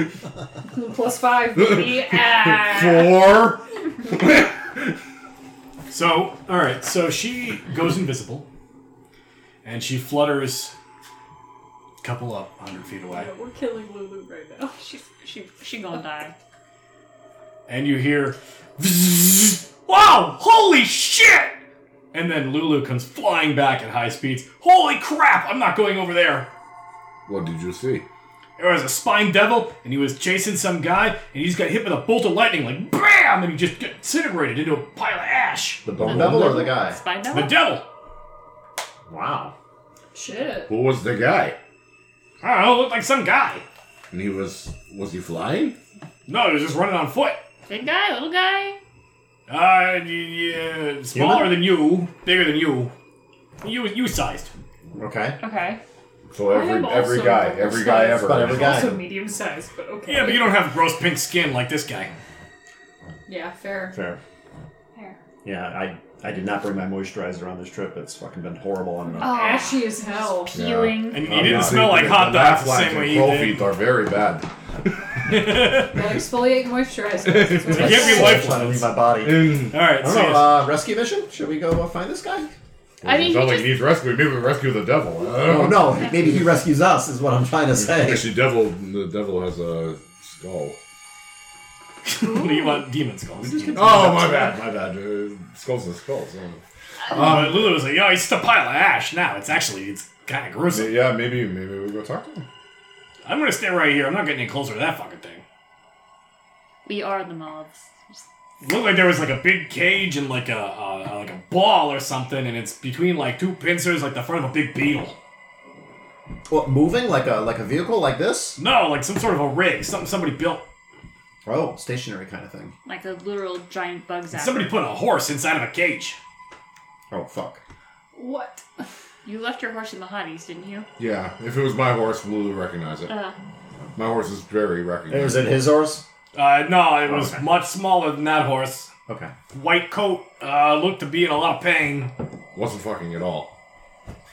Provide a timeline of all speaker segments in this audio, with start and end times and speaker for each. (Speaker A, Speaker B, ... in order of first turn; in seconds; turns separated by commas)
Speaker A: 0.7-3.4, Speaker B: 1.6-4.8, Speaker C: 5.9-8.5, Speaker C: 9.6-10.8, Speaker C: 12.0-13.3, Speaker A: 13.1-14.8, Speaker D: 14.8-16.4, Speaker C: 17.7-21.6, Speaker C: 22.1-26.5, Speaker B: 27.3-28.1, Speaker C: 28.6-35.9, Speaker B: 35.9-36.7, Speaker E: 35.9-37.0, Speaker D: 36.1-37.5, Speaker C: 37.3-37.9, Speaker E: 39.1-39.5, Speaker A: 40.1-40.7, Speaker B: 40.7-41.6, Speaker C: 42.4-43.6, Speaker B: 44.1-45.8, Speaker C: 46.3-47.4, Speaker D: 47.7-48.8, Speaker C: 49.5-52.9, Speaker E: 51.1-51.6, Speaker C: 53.6-54.5, Speaker E: 55.0-55.4, Speaker D: 55.4-55.8, Speaker B: 56.3-59.0, Speaker A: 56.4-60.6, Speaker E: 57.9-59.0, Speaker C: 60.1-62.1, Speaker A: 63.3-64.0, Speaker E: 63.9-64.2, Speaker E: 65.4-69.4, Speaker A: 69.2-70.6, Speaker D: 69.2-71.3, Speaker B: 70.5-74.9, Speaker C: 71.1-73.7, Speaker E: 71.3-71.9, Speaker C: 75.3-76.1, Speaker A: 75.8-78.4, Speaker B: 77.3-78.0, Speaker C: 77.7-79.0, Speaker E: 77.7-82.5, Speaker B: 79.2-79.7, Speaker C: 79.7-80.6, Speaker B: 83.0-86.5, Speaker D: 83.0-83.8, Speaker E: 85.3-88.3, Speaker B: 87.8-90.8, Speaker C: 92.0-94.5, Speaker E: 93.6-94.3, Speaker B: 93.7-97.7, Speaker C: 97.1-101.0, Speaker B: 100.7-102.5, Speaker C: 103.2-105.4, Speaker D: 106.9-108.2, Speaker C: 108.6-115.2, Speaker E: 116.5-118.6, Speaker C: 118.6-120.7, Speaker E: 121.5-122.7, Speaker D: 122.9-124.7, Speaker C: 124.3-126.2, Speaker E: 127.1-127.6, Speaker A: 128.1-128.7, Speaker D: 129.2-130.9, Speaker B: 131.0-133.1, Speaker D: 133.1-133.3, Speaker B: 133.9-135.6, Speaker E: 135.1-136.1, Speaker C: 136.3-138.9, Speaker E: 137.1-137.4, Speaker E: 139.1-139.3, Speaker C: 139.5-142.1, Speaker B: 142.5-143.5